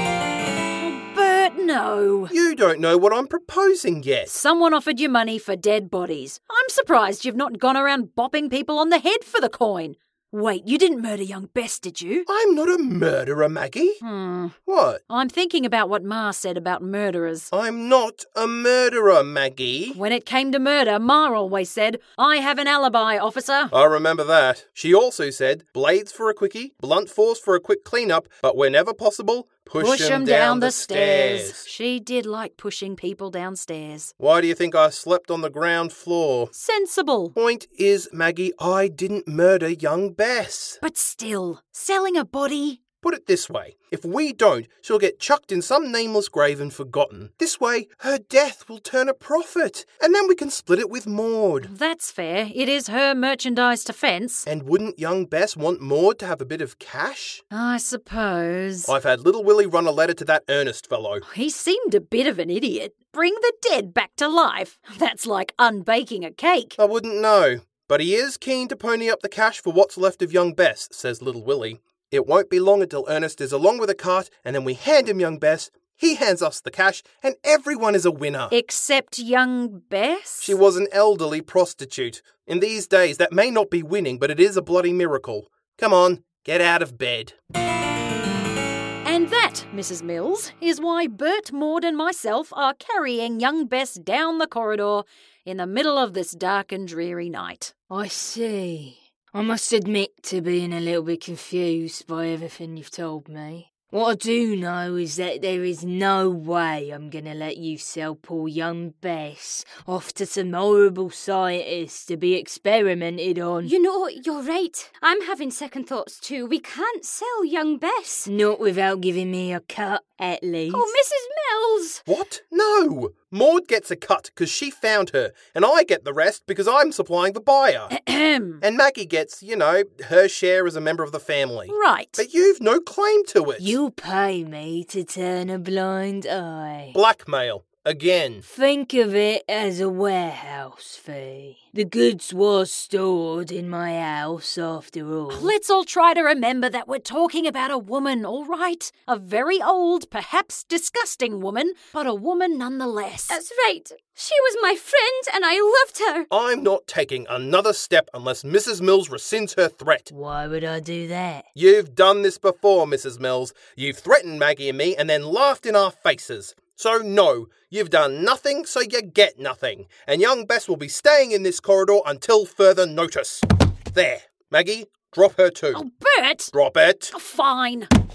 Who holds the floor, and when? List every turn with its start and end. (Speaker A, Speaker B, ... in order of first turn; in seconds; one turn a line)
Speaker A: 0.7-2.3
Speaker B: 2.3-4.3
Speaker A: 4.3-12.3
Speaker B: 12.3-14.0
Speaker A: 14.0-14.6
Speaker B: 14.7-15.0
Speaker A: 15.1-17.5
Speaker B: 17.5-20.0
Speaker A: 19.9-23.7
Speaker B: 23.7-31.6
Speaker A: 29.8-34.1
Speaker B: 34.2-36.5
Speaker A: 36.5-37.3
Speaker B: 37.3-40.8
Speaker A: 40.8-42.8
Speaker B: 43.0-51.7
Speaker A: 51.6-54.5
Speaker B: 54.5-57.4
Speaker A: 57.5-58.9
Speaker B: 58.9-61.2
Speaker A: 61.2-66.8
Speaker B: 66.8-78.5
Speaker A: 78.5-80.6
Speaker B: 80.4-87.3
Speaker A: 89.0-97.7
Speaker C: 97.9-113.7
Speaker D: 113.6-118.3
Speaker C: 118.2-120.9
Speaker D: 120.7-122.0
Speaker B: 122.1-127.9
Speaker A: 127.9-128.6
Speaker B: 128.6-133.8
Speaker A: 131.7-132.2
Speaker C: 133.6-137.0
Speaker B: 136.9-138.4
Speaker C: 138.4-145.5
Speaker A: 145.3-153.4
Speaker D: 153.3-156.3
Speaker B: 156.3-160.1
Speaker C: 160.1-161.4
Speaker B: 161.5-175.8
Speaker A: 175.7-176.5
Speaker B: 176.5-177.1
Speaker A: 177.1-177.9